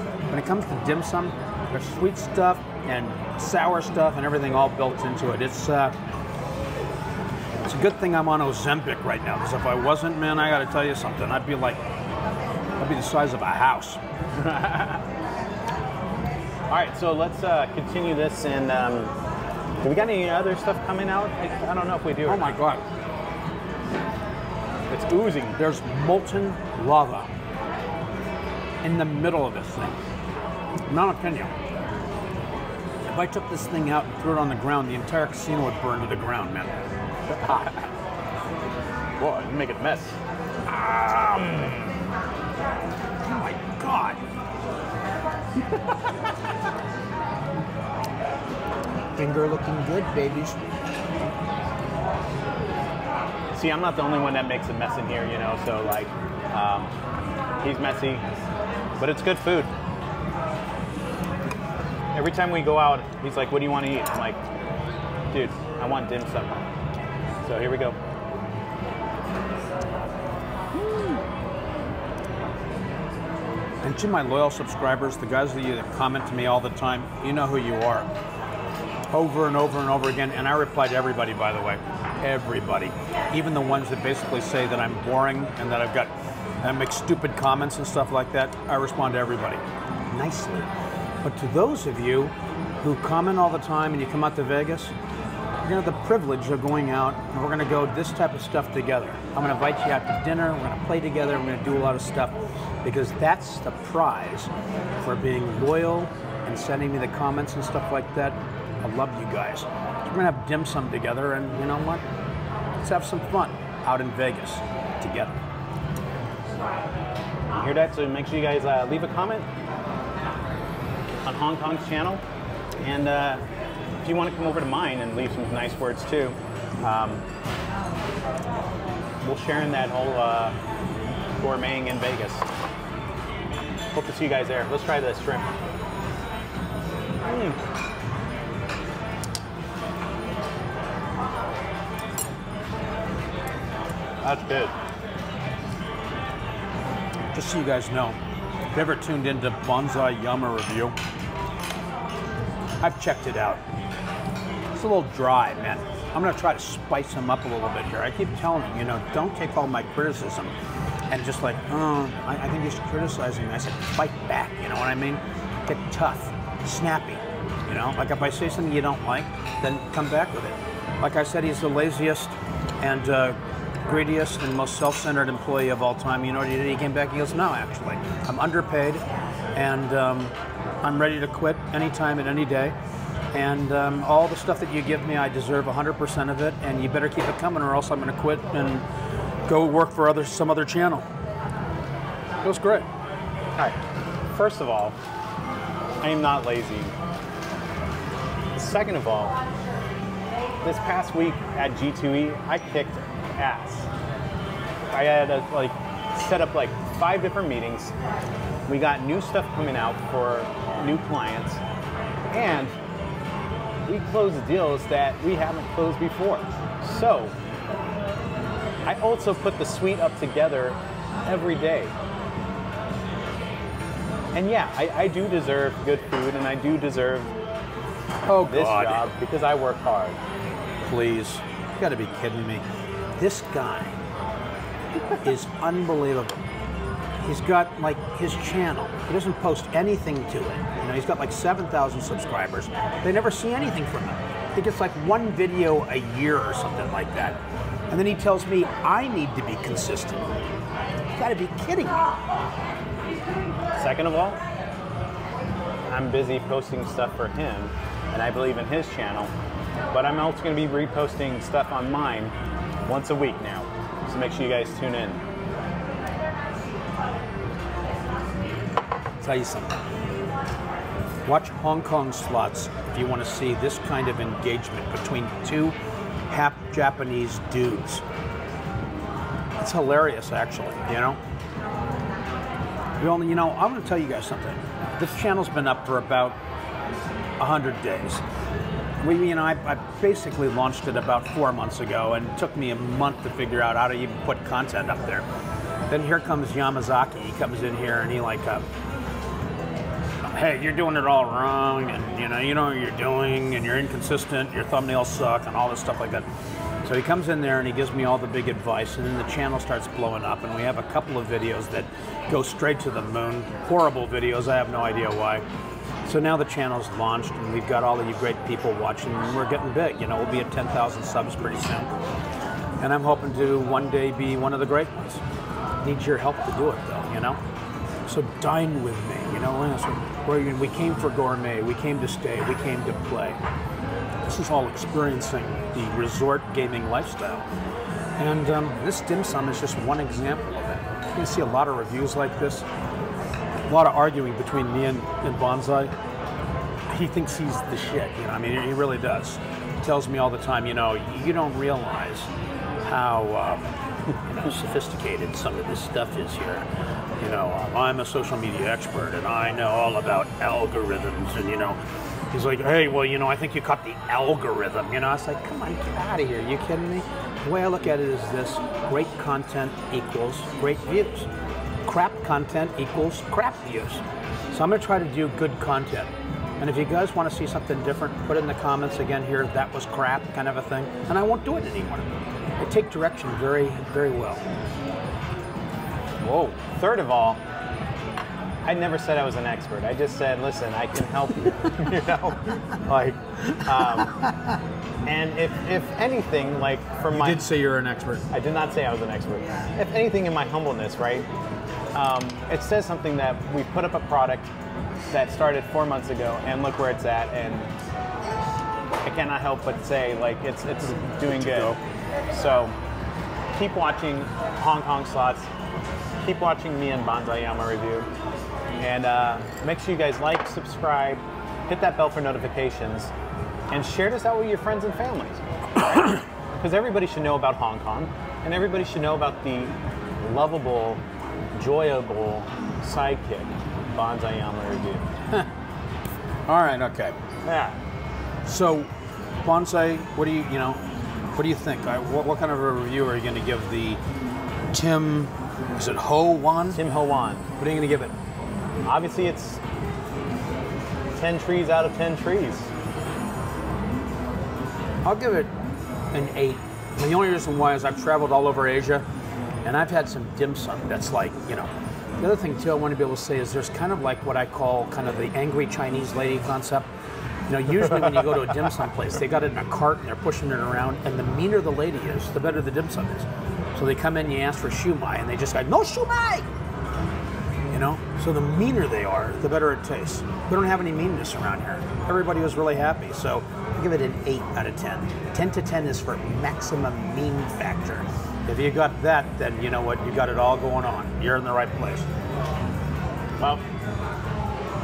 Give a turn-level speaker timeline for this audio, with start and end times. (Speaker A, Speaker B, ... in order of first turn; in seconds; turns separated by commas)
Speaker A: 0.3-6.0, Speaker A: 7.7-11.8, Speaker A: 12.8-14.0, Speaker B: 14.4-15.0, Speaker B: 16.7-19.1, Speaker B: 19.8-22.6, Speaker A: 22.3-22.8, Speaker B: 24.9-25.6, Speaker A: 25.6-27.3, Speaker A: 28.8-30.0, Speaker A: 30.9-31.5, Speaker A: 33.1-36.8, Speaker B: 37.3-37.8, Speaker B: 39.2-42.0, Speaker A: 43.2-44.2, Speaker A: 49.2-50.6, Speaker B: 53.5-56.9, Speaker B: 57.6-58.2, Speaker B: 59.0-59.7, Speaker B: 62.1-64.4, Speaker B: 65.3-66.6, Speaker B: 67.4-68.0, Speaker B: 70.8-71.2, Speaker A: 73.8-78.1, Speaker A: 79.1-90.7, Speaker A: 91.2-95.0, Speaker A: 95.7-104.5, Speaker A: 105.0-112.0, Speaker A: 112.8-115.4, Speaker B: 117.5-119.5, Speaker B: 121.2-122.2, Speaker B: 122.8-123.4, Speaker B: 124.0-127.2, Speaker B: 129.2-130.6, Speaker B: 131.4-132.5, Speaker B: 133.9-135.5, Speaker B: 137.2-137.6, Speaker B: 144.2-144.7, Speaker A: 147.3-148.2, Speaker A: 148.7-150.9, Speaker A: 152.8-153.6, Speaker A: 154.7-160.5, Speaker A: 161.1-182.8, Speaker A: 183.3-188.8, Speaker A: 189.5-191.1, Speaker A: 192.4-192.9, Speaker B: 194.3-195.0, Speaker B: 196.0-196.9, Speaker B: 198.6-199.4, Speaker B: 200.6-203.9, Speaker B: 204.9-207.9, Speaker B: 208.7-211.6, Speaker B: 212.3-212.7, Speaker B: 213.8-217.3, Speaker B: 218.9-221.9, Speaker B: 224.3-227.3, Speaker A: 228.2-229.1, Speaker B: 228.4-230.2, Speaker A: 230.8-232.7, Speaker A: 233.2-234.0, Speaker A: 235.2-236.4, Speaker A: 237.2-247.4, Speaker A: 247.9-250.3, Speaker A: 251.1-252.1, Speaker B: 253.8-254.4, Speaker B: 255.9-259.3, Speaker B: 259.9-262.3, Speaker B: 262.9-265.2, Speaker A: 269.2-269.8, Speaker A: 271.2-275.8, Speaker A: 276.3-278.0, Speaker A: 279.6-281.2, Speaker A: 283.0-286.4, Speaker A: 287.4-288.2, Speaker A: 289.0-295.3, Speaker A: 295.9-298.7, Speaker A: 300.2-306.3, Speaker A: 306.8-315.4, Speaker A: 316.1-321.9, Speaker A: 322.8-325.2, Speaker A: 325.8-327.4, Speaker A: 328.1-333.4, Speaker A: 334.3-337.5, Speaker A: 338.2-342.7, Speaker A: 343.7-345.9, Speaker A: 346.9-352.3, Speaker A: 352.9-356.7, Speaker A: 357.2-361.8, Speaker A: 362.3-371.3, Speaker A: 371.9-384.4, Speaker B: 386.2-387.4, Speaker B: 388.6-394.2, Speaker A: 394.1-394.3, Speaker B: 395.1-397.5, Speaker A: 397.1-398.2, Speaker B: 398.3-401.3, Speaker B: 401.9-404.5, Speaker B: 405.1-407.7, Speaker B: 409.1-412.8, Speaker A: 411.3-411.7, Speaker B: 413.5-415.5, Speaker B: 416.2-418.1, Speaker B: 418.8-423.1, Speaker B: 423.7-431.0, Speaker B: 431.6-435.1, Speaker A: 436.5-437.2, Speaker B: 437.4-437.8, Speaker A: 438.4-438.9, Speaker A: 439.4-440.8, Speaker A: 441.4-444.0, Speaker A: 444.7-446.8, Speaker B: 446.7-447.5, Speaker A: 447.6-448.1, Speaker B: 448.9-449.6, Speaker B: 451.1-452.7, Speaker A: 455.0-455.5, Speaker A: 456.1-459.1, Speaker A: 459.6-466.9, Speaker A: 467.5-476.5, Speaker A: 477.7-492.1